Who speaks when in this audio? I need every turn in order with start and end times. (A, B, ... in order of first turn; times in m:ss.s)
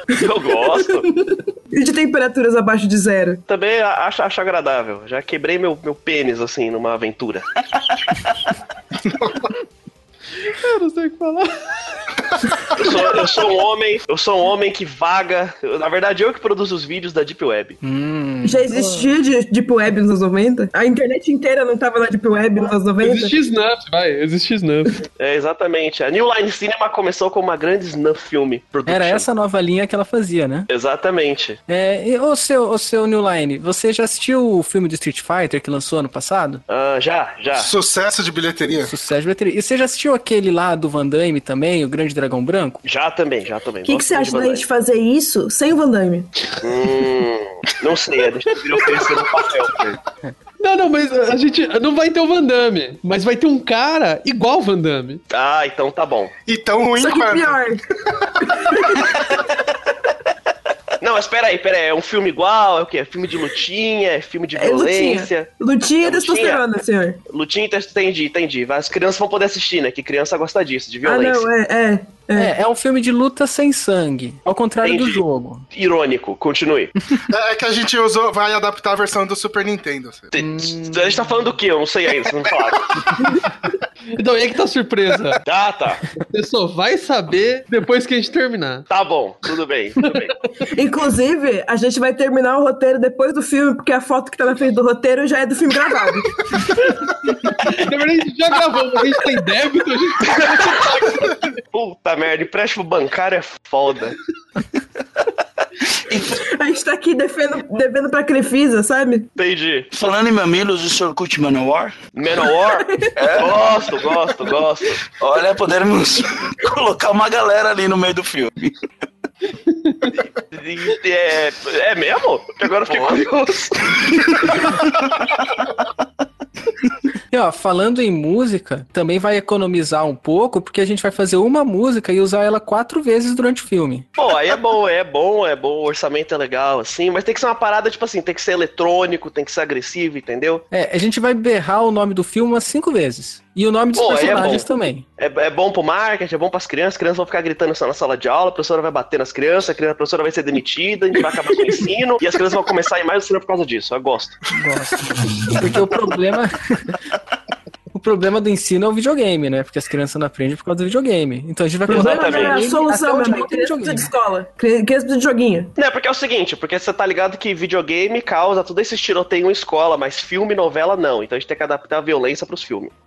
0:00.2-0:01.0 A
0:00.7-0:03.4 B
0:03.5-0:07.4 A
0:10.4-0:11.5 C
0:12.7-0:17.8 A
0:17.8-0:19.1 D
0:18.4-0:23.4 B
0:23.0-0:25.0 C
0:25.2-0:29.3 A
0:28.8-0:30.7 D
0:30.7-0:31.6 A
0:31.7-0:36.6 D
0:36.7-0:37.7 A
0:37.5-0:38.9 E
0:38.8-0:42.8 D
0:42.8-0:44.6 A
0:43.8-0:46.3 B
0:46.6-0:50.0 A
0:50.6-0:55.2 C
0:55.3-0:56.3 A
0:56.4-0:57.6 E
0:57.0-0:57.8 B
0:58.4-0:59.4 B
1:01.0-1:05.5 A
1:04.5-1:07.2 B
1:06.0-1:06.6 A
1:07.3-1:11.5 A
1:11.0-1:12.5 B
1:12.3-1:15.6 D
1:14.8-1:16.9 A
1:17.3-1:20.3 E
1:20.3-1:23.0 A
1:20.4-1:20.9 D
1:24.1-1:25.4 C
1:25.4-1:26.0 A
1:26.2-1:28.8 C
1:28.9-1:30.3 A
1:30.7-1:36.7 B
1:37.6-1:41.4 C
1:41.7-1:44.1 A
1:46.2-1:49.3 B
1:49.4-1:49.9 A
1:49.9-1:52.0 F
1:52.1-1:55.0 A
1:52.6-1:53.2 B
1:53.2-1:54.0 F
1:55.1-1:58.8 F
1:59.6-2:00.2 C
2:00.5-2:04.8 A
2:07.3-2:14.1 D
2:14.2-2:20.6 A
2:20.7-2:25.0 D
2:23.9-2:34.4 A
2:34.5-2:36.9 D
2:37.9-2:44.1 D
2:41.9-2:45.7 B
2:41.9-2:42.7 A
2:45.8-2:52.9 A